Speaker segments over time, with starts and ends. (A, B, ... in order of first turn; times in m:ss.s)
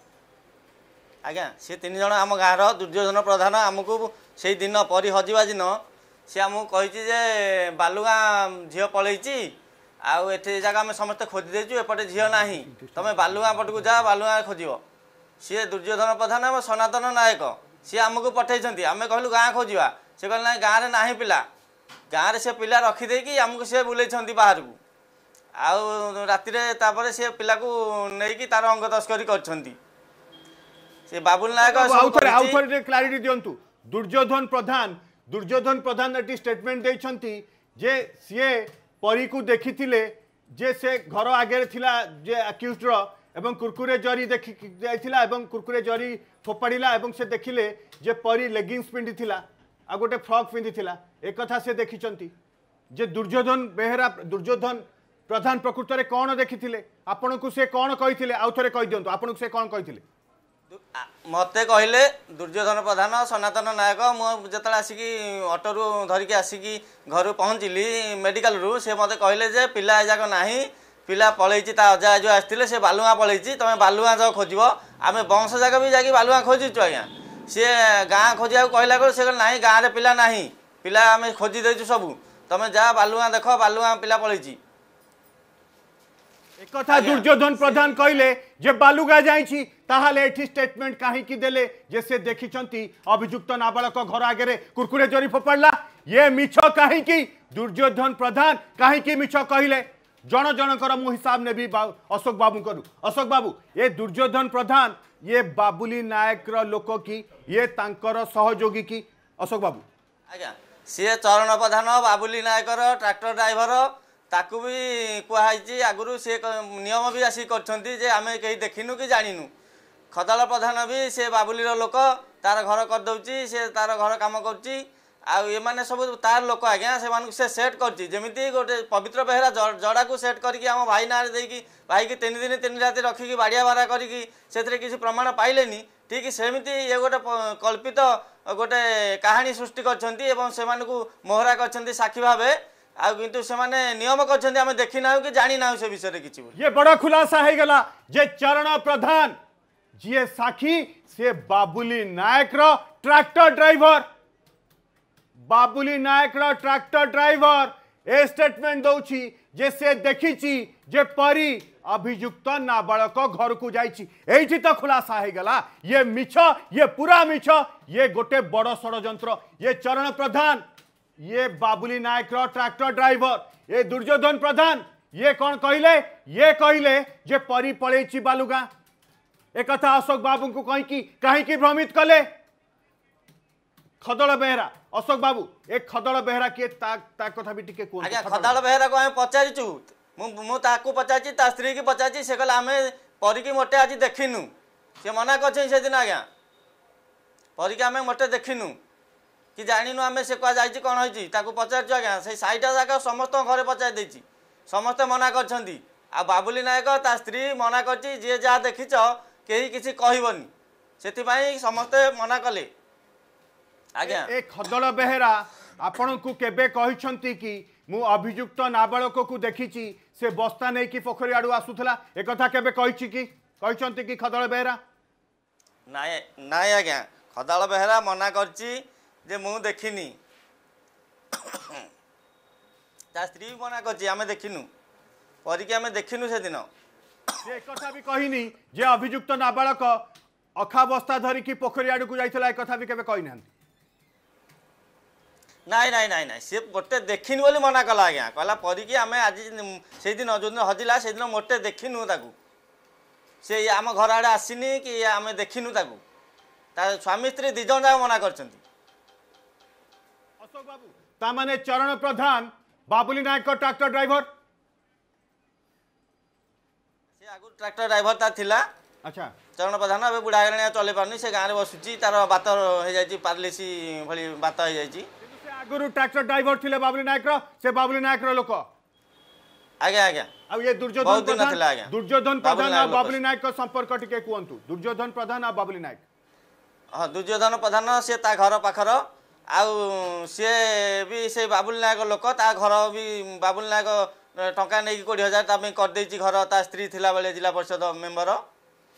0:01.2-0:09.5 A
0:10.0-0:14.8 A
0:15.4-0:21.4 A
0:22.1-0:24.8 A
0:25.6-0:29.8 A
0:31.1-0:32.6 A
0:31.6-0:52.3 B
0:52.9-1:00.0 B
1:00.7-1:24.6 A
1:26.6-1:49.8 B
1:26.9-1:28.0 A
1:50.3-1:59.5 A
2:00.1-2:26.5 A
2:26.5-2:29.3 B
2:30.0-2:34.0 B
2:35.4-2:50.6 B
2:51.2-2:58.7 B
2:59.5-3:02.2 B
3:04.0-3:08.6 B
3:08.0-3:14.5 A
3:15.0-3:16.2 A
3:17.6-3:18.7 A
3:19.6-3:30.5 A
3:31.0-3:32.7 A
3:33.9-3:34.3 A
3:34.0-3:44.8 B
3:45.9-3:50.2 A
3:51.3-3:51.8 A
3:53.1-3:54.7 A
3:55.4-3:56.7 A
3:57.4-4:00.0 B
4:00.6-4:03.5 B
4:05.7-4:12.3 A
4:13.4-4:16.0 A
4:16.8-4:18.6 A
4:20.4-4:24.2 B
4:27.2-4:28.6 A
4:29.0-4:29.3 B
4:29.6-4:35.1 A
4:35.2-4:38.6 B
4:39.8-4:40.3 A
4:40.5-4:46.0 B
4:41.0-4:41.9 A
4:42.4-4:43.2 A
4:46.9-4:49.0 A
4:49.5-4:58.4 A